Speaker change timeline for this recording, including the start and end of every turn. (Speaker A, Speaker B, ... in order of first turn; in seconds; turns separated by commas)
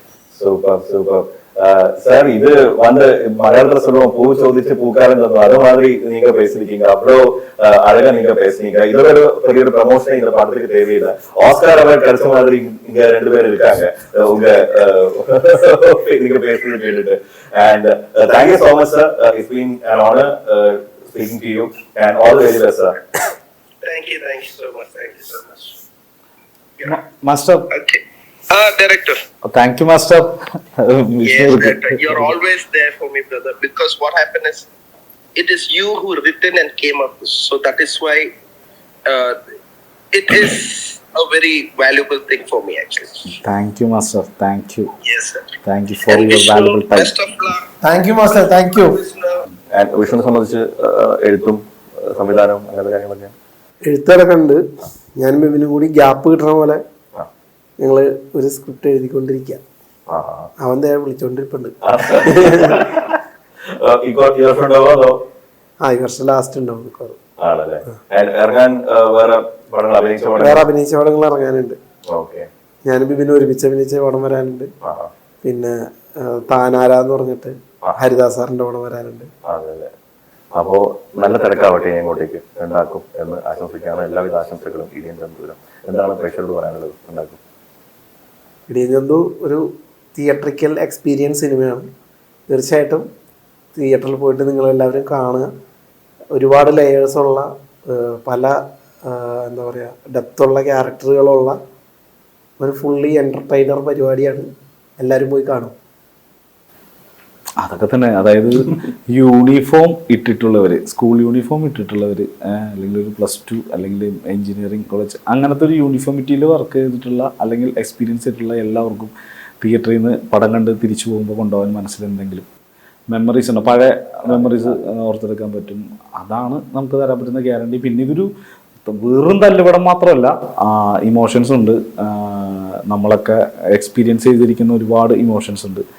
Speaker A: 0.3-23.0, Speaker B: 23.8-25.8, Speaker C: 26.8-27.7, Speaker B: 27.7-29.2, Speaker C: 29.4-32.3, Speaker B: 31.2-34.7, Speaker B: 35.4-38.3, Speaker B: 39.1-39.4, Speaker B: 40.1-43.4, Speaker C: 43.3-44.9, Speaker B: 45.0-47.7, Speaker C: 45.6-47.1, Speaker D: 47.8-49.0, Speaker B: 48.3-49.4, Speaker A: 49.7-53.3, Speaker D: 53.9-54.6, Speaker D: 55.2-56.8, Speaker D: 57.8-59.6, Speaker A: 60.1-60.5, Speaker D: 60.6-62.9, Speaker A: 61.8-65.2, Speaker D: 65.8-67.2, Speaker A: 67.4-70.7, Speaker D: 70.4-71.8, Speaker A: 72.1-72.5, Speaker D: 72.9-74.7, Speaker A: 74.8-75.1, Speaker D: 75.4-79.3, Speaker A: 79.4-79.9, Speaker A: 80.5-87.4, Speaker D: 88.7-91.9, Speaker D: 92.5-93.0, Speaker D: 93.8-95.5, Speaker D: 96.3-101.6, Speaker D: 102.6-104.5, Speaker D: 105.0-105.7, Speaker C: 107.6-122.4, Speaker C: 123.1-128.3, Speaker A: 124.3-124.8, Speaker C: 128.9-135.8